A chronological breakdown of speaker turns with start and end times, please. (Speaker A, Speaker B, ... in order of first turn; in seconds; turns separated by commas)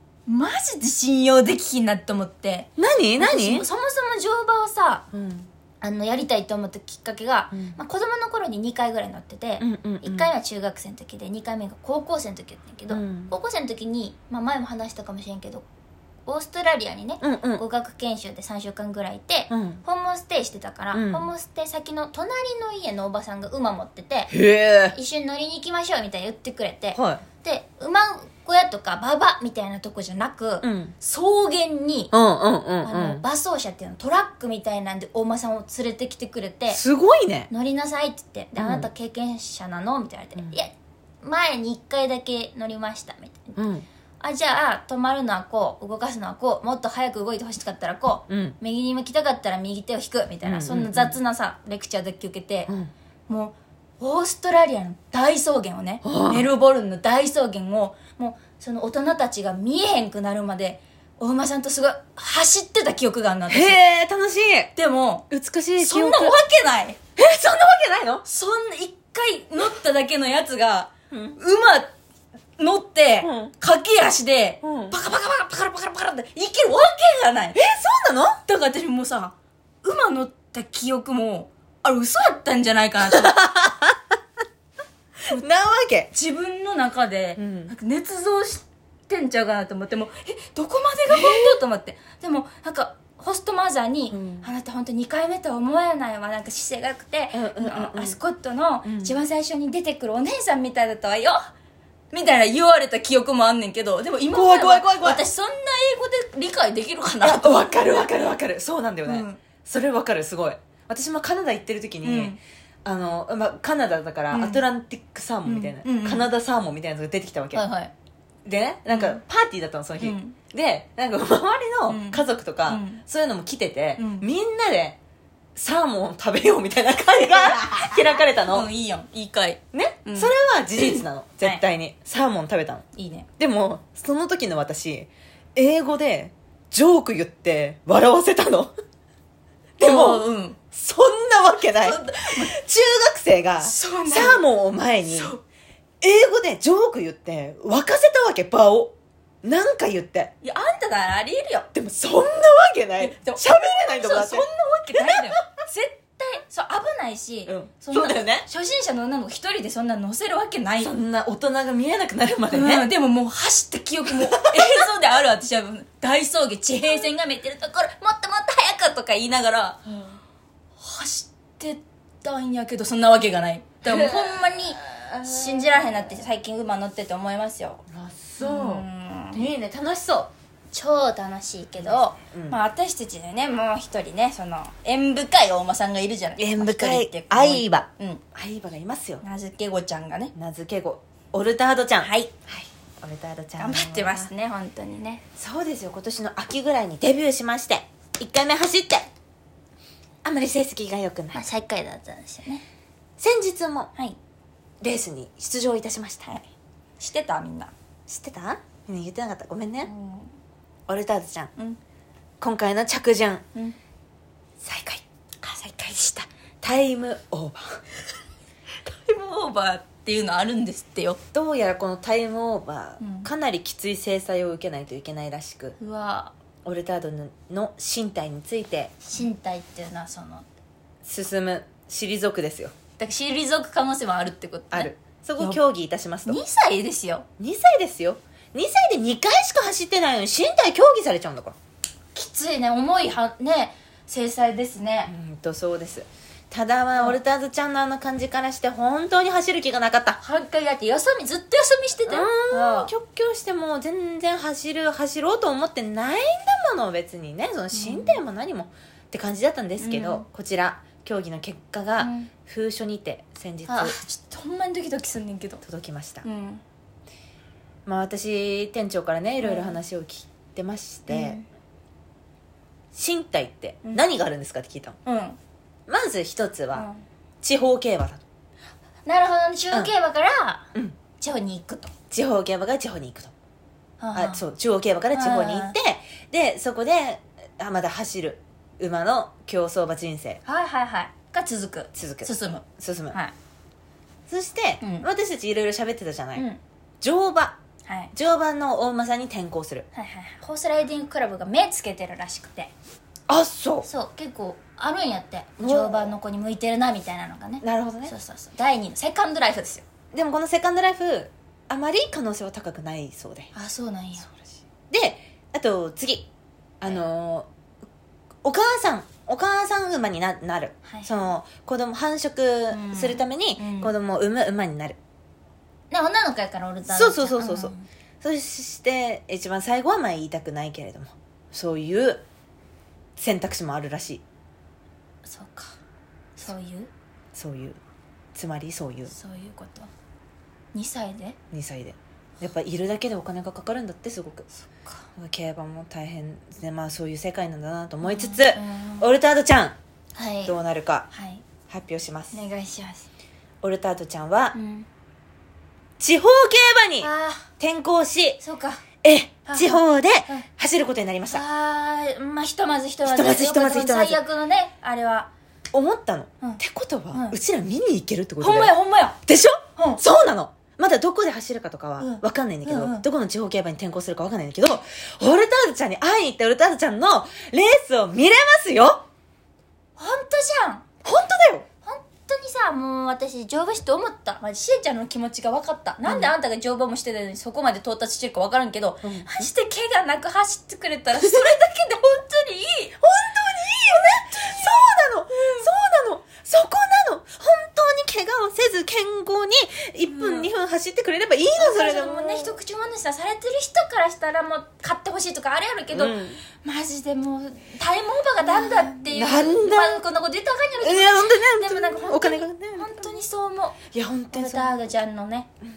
Speaker A: 0.3-5.0, Speaker B: 2.8-3.7, Speaker B: 5.1-5.5, Speaker A: 5.8-15.7, Speaker B: 7.5-7.8, Speaker B: 9.6-10.3, Speaker B: 12.9-13.3, Speaker A: 16.3-24.3, Speaker B: 17.2-17.6, Speaker B: 19.5-19.8, Speaker B: 20.9-21.3, Speaker B: 24.3-25.0, Speaker A: 24.9-32.1, Speaker B: 26.9-27.2, Speaker B: 30.6-30.9, Speaker B: 32.1-33.2, Speaker A: 32.8-36.8, Speaker B: 36.7-37.5, Speaker A: 37.5-43.6, Speaker B: 38.6-38.9, Speaker B: 43.6-43.9, Speaker A: 44.2-52.7, Speaker B: 48.3-48.6, Speaker B: 50.4-51.2, Speaker A: 53.3-63.8, Speaker B: 56.0-56.5, Speaker B: 63.5-64.7, Speaker A: 64.8-65.3, Speaker B: 65.3-66.4, Speaker A: 65.8-67.0, Speaker B: 67.2-68.2, Speaker A: 68.2-71.9, Speaker B: 71.1-71.4, Speaker A: 72.6-77.6, Speaker B: 73.2-73.5, Speaker B: 74.6-75.0, Speaker B: 77.5-78.4, Speaker A: 78.5-83.3, Speaker B: 83.1-84.0, Speaker B: 85.3-86.1, Speaker A: 86.1-101.5, Speaker B: 87.4-87.7, Speaker B: 91.1-91.6, Speaker B: 94.1-94.5, Speaker B: 97.3-98.2, Speaker B: 98.8-99.2, Speaker A: 102.1-108.1, Speaker B: 104.3-105.2, Speaker B: 107.2-117.7, Speaker A: 109.0-109.4, Speaker A: 112.0-112.4, Speaker A: 114.3-114.6, Speaker A: 115.5-116.3, Speaker A: 117.5-117.9, Speaker B: 118.5-125.0, Speaker A: 118.9-119.2, Speaker A: 120.0-120.4, Speaker A: 121.9-123.0, Speaker A: 124.0-124.3, Speaker B: 125.6-128.7, Speaker A: 127.3-131.6, Speaker B: 129.7-132.9, Speaker A: 132.9-133.3, Speaker B: 133.4-138.7, Speaker A: 139.8-140.6, Speaker B: 139.8-145.3, Speaker A: 141.8-142.6, Speaker A: 143.6-144.4, Speaker A: 145.1-145.4, Speaker B: 146.0-150.3, Speaker A: 150.4-151.7, Speaker B: 151.7-155.3, Speaker A: 153.0-160.9, Speaker B: 157.5-158.5, Speaker B: 160.8-162.9, Speaker A: 162.5-169.9, Speaker B: 164.1-164.9, Speaker A: 170.8-177.8, Speaker B: 173.8-176.0, Speaker B: 177.9-180.3, Speaker A: 178.4-179.5, Speaker A: 180.7-188.2, Speaker B: 181.8-182.6, Speaker B: 186.4-189.2, Speaker A: 189.2-190.3, Speaker B: 190.3-194.3, Speaker A: 192.0-192.3, Speaker A: 193.6-195.2, Speaker B: 195.4-199.1, Speaker B: 200.2-201.4, Speaker A: 201.3-202.6, Speaker B: 203.2-203.9, Speaker B: 204.8-206.3, Speaker A: 207.0-207.7, Speaker B: 208.1-209.9, Speaker A: 209.8-210.3, Speaker B: 210.9-211.5, Speaker B: 212.4-213.4, Speaker B: 214.6-215.0, Speaker A: 215.4-216.3, Speaker B: 216.6-217.8, Speaker A: 218.9-221.2, Speaker B: 221.3-225.8, Speaker A: 223.0-223.3, Speaker A: 225.8-226.3, Speaker B: 226.7-229.1, Speaker A: 229.1-230.5, Speaker B: 231.0-232.7, Speaker A: 233.0-235.6, Speaker B: 234.7-236.4, Speaker A: 236.3-237.3, Speaker B: 237.4-241.6, Speaker A: 242.2-245.1, Speaker B: 245.1-250.2, Speaker A: 250.2-252.9, Speaker B: 252.1-264.0, Speaker A: 257.7-258.2, Speaker A: 259.8-260.3, Speaker A: 262.0-262.3, Speaker A: 263.7-265.6, Speaker B: 265.6-266.3, Speaker A: 266.2-266.6, Speaker B: 267.9-271.4, Speaker A: 269.4-269.8, Speaker A: 271.1-271.5, Speaker B: 272.9-275.0, Speaker A: 275.1-275.4, Speaker B: 275.9-276.9, Speaker A: 276.7-277.0, Speaker B: 277.4-278.2, Speaker A: 279.1-281.9, Speaker B: 282.1-283.3, Speaker A: 284.0-284.4, Speaker B: 284.1-290.4, Speaker A: 285.1-285.8, Speaker A: 290.4-293.3, Speaker B: 291.9-293.2, Speaker B: 294.3-296.5, Speaker A: 294.8-295.1, Speaker A: 296.4-296.6, Speaker B: 297.0-297.6, Speaker A: 297.9-298.1, Speaker B: 298.1-299.9, Speaker A: 299.9-302.7, Speaker B: 303.3-303.9, Speaker A: 303.8-309.8, Speaker B: 305.6-306.1, Speaker B: 307.6-308.1, Speaker B: 310.1-313.5, Speaker A: 313.5-314.3, Speaker B: 314.9-316.3, Speaker B: 316.8-317.5, Speaker B: 318.4-325.0, Speaker A: 320.9-321.1, Speaker A: 322.7-323.9, Speaker A: 325.9-327.9, Speaker B: 326.9-332.2, Speaker B: 333.2-334.2, Speaker A: 335.2-335.8, Speaker A: 336.4-336.9, Speaker B: 337.3-337.8, Speaker B: 338.4-339.1, Speaker A: 339.1-339.9, Speaker A: 340.7-341.4, Speaker B: 341.5-344.5, Speaker B: 345.2-349.8, Speaker A: 348.0-349.1, Speaker A: 350.2-350.6, Speaker B: 350.5-351.1, Speaker A: 351.1-351.4, Speaker B: 351.7-352.4, Speaker A: 352.3-353.1, Speaker B: 353.6-354.6, Speaker A: 354.5-354.9, Speaker B: 356.0-357.1, Speaker A: 357.0-357.5, Speaker B: 357.6-358.4, Speaker A: 358.4-358.8, Speaker B: 359.0-361.4, Speaker A: 359.5-360.5, Speaker A: 361.3-365.3, Speaker B: 363.1-364.2, Speaker B: 365.7-368.7, Speaker A: 367.1-367.4, Speaker A: 368.4-369.2, Speaker B: 369.3-379.1, Speaker A: 369.8-370.0, Speaker A: 372.0-373.1, Speaker A: 380.0-380.9, Speaker B: 381.0-381.7, Speaker A: 381.9-393.0, Speaker B: 386.1-386.3, Speaker B: 389.0-389.5, Speaker B: 391.2-391.4, Speaker B: 393.0-402.6, Speaker A: 394.3-394.7, Speaker A: 400.1-400.5, Speaker A: 401.6-413.8, Speaker B: 405.9-406.4, Speaker B: 408.5-410.0, Speaker B: 410.8-413.1, Speaker B: 413.9-414.8, Speaker A: 414.3-415.5